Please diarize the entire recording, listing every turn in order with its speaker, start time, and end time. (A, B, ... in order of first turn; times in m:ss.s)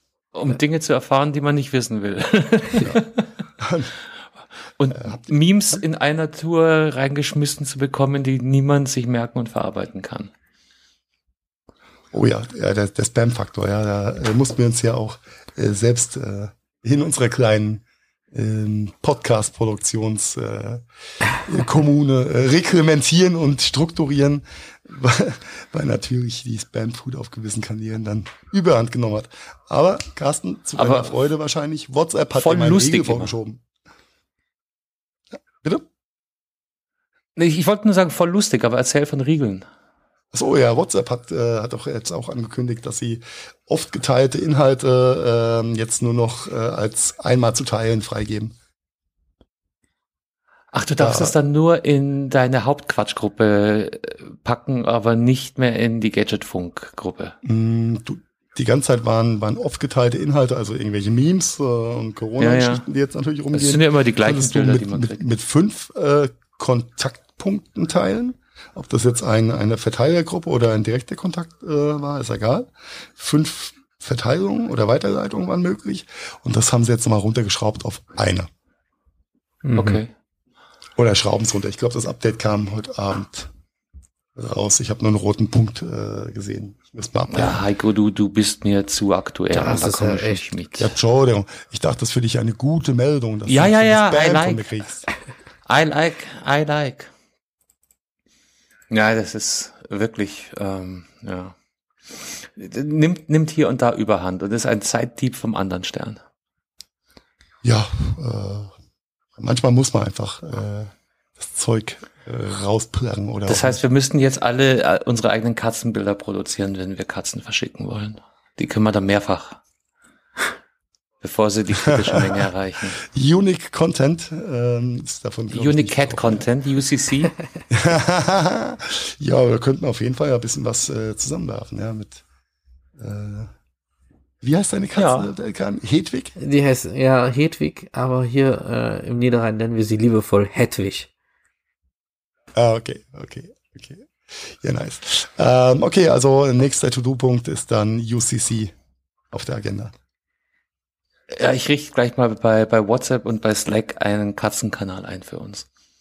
0:00.3-0:03.2 A
0:03.6-0:03.9 B
0:04.8-0:10.3 A
0:04.9-0:05.3 B
0:12.1-0:33.6 B
0:30.8-0:31.1 A
0:32.4-0:33.3 A
0:35.6-0:35.8 B
0:37.4-0:39.6 A
0:40.3-0:48.5 B
0:50.7-0:57.4 A
0:51.0-0:51.3 B
0:57.4-1:18.5 B
1:02.4-1:02.8 A
1:03.5-1:05.2 A
1:19.6-1:20.0 C
1:19.7-1:20.1 A
1:21.0-1:23.5 B
1:24.3-1:27.6 B
1:27.3-1:30.9 A
1:29.5-1:30.4 C
1:30.8-1:35.1 B
1:33.5-1:34.8 A
1:35.7-1:37.1 A
1:38.9-1:41.5 A
1:42.1-1:46.2 A
1:47.6-1:48.7 B
1:49.4-1:53.8 B
1:53.4-1:59.6 A
2:01.2-2:03.0 A
2:01.8-2:02.4 B
2:03.0-2:06.5 B
2:05.5-2:07.3 A
2:07.7-2:12.2 B
2:13.0-2:13.5 B
2:14.4-2:16.3 B
2:15.0-2:15.3 A
2:16.4-2:21.1 C
2:22.6-2:28.7 B
2:29.3-2:29.9 B
2:31.3-2:35.6 A